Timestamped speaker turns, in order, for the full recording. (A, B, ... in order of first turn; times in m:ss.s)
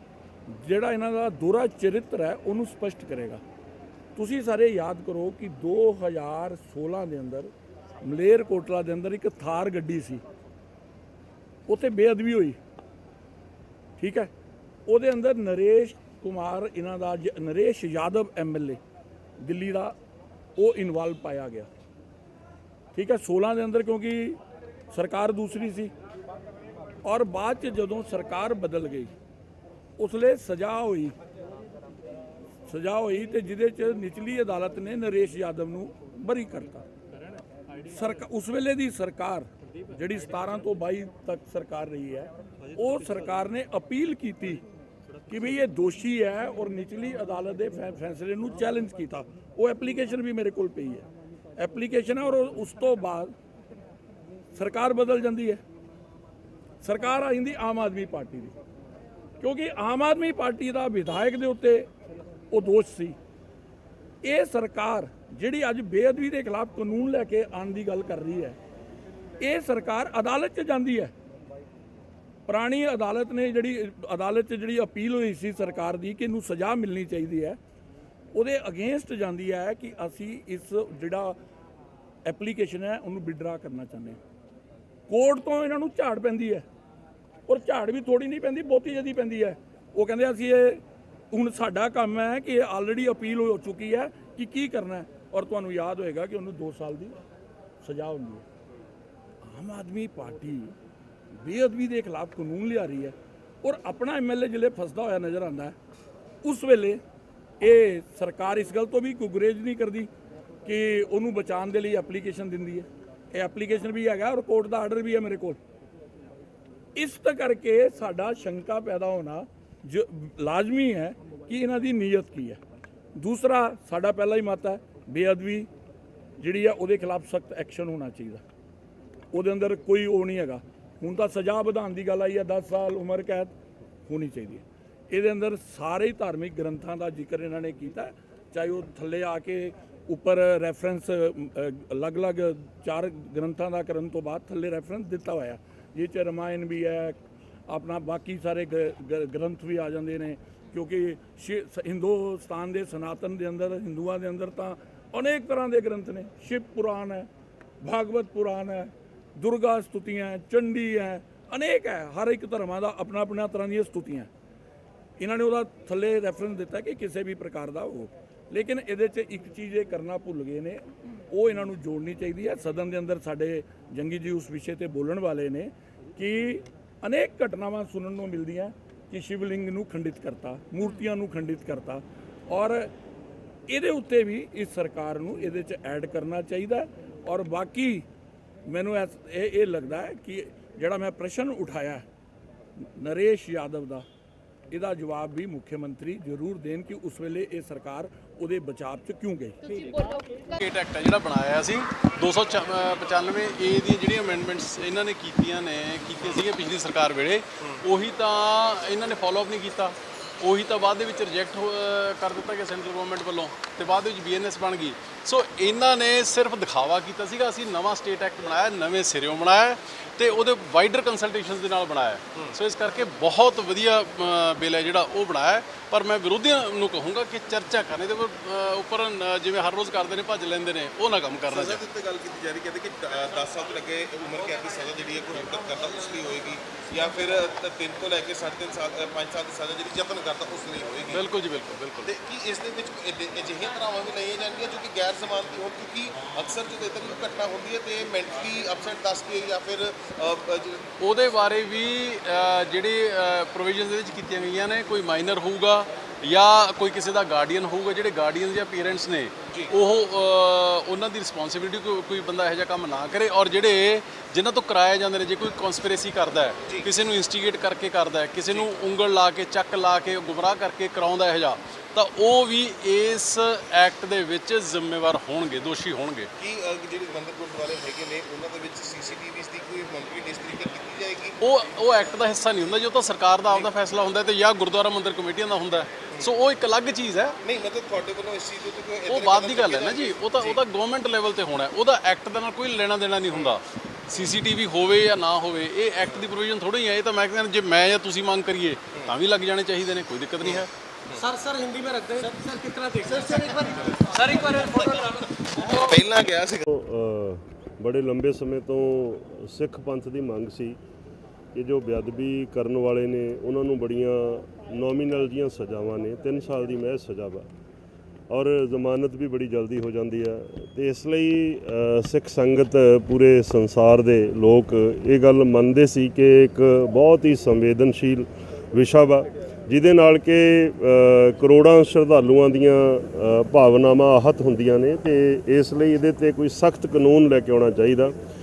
0:00.5-0:03.4 A
0:04.2-0:07.5 A
0:08.0-0:10.2 A
0:11.7-0:12.6 A
0:14.0-0:14.3 A
0:14.9-0:18.8 A
0:19.4-0:20.0 A
0:20.6-0:21.7 A
0:22.9-0:24.4 A
0:24.9-0:25.9 A
0:27.0-0:29.1 A
0:30.0-0:31.2 A
0:32.7-0:36.8 A
0:37.9-0:44.6 A
0:45.3-0:51.0 A
0:51.6-0:53.3 A
0:54.5-0:55.6 A
0:56.8-0:58.5 A
0:59.4-1:01.9 A
1:02.5-1:03.2 A
1:04.2-1:08.6 A
1:09.4-1:11.1 A
1:12.5-1:17.6 A
1:18.3-1:21.4 A
1:22.2-1:24.2 A
1:25.1-1:26.6 A
1:27.5-1:37.2 A
1:37.8-1:38.4 A
1:39.4-1:40.8 A
1:41.4-1:45.8 A
1:46.4-1:47.0 A
1:47.6-1:50.1 A
1:50.6-1:55.6 A
1:57.0-2:02.6 A
2:03.2-2:05.7 A
2:06.4-2:08.4 A
2:09.3-2:13.5 A
2:14.1-2:37.3 A
2:37.8-2:44.3 A
2:45.2-3:02.9 A
3:03.7-3:08.0 A
3:08.7-3:12.0 A
3:12.8-3:14.0 A
3:14.7-3:19.6 A
3:19.7-3:51.8 B
3:51.5-4:01.2 C
4:01.1-4:02.1 B
4:02.0-4:10.9 C
4:11.0-4:36.3 B
4:36.4-4:41.4 C
4:41.4-4:47.4 B
4:47.4-4:50.6 C
4:49.1-5:00.7 B
4:53.3-4:53.6 C
5:01.2-5:06.0 D
5:04.3-5:04.9 C
5:05.6-5:06.6 C
5:06.7-5:10.8 E
5:11.5-5:17.5 E
5:18.3-5:38.1 E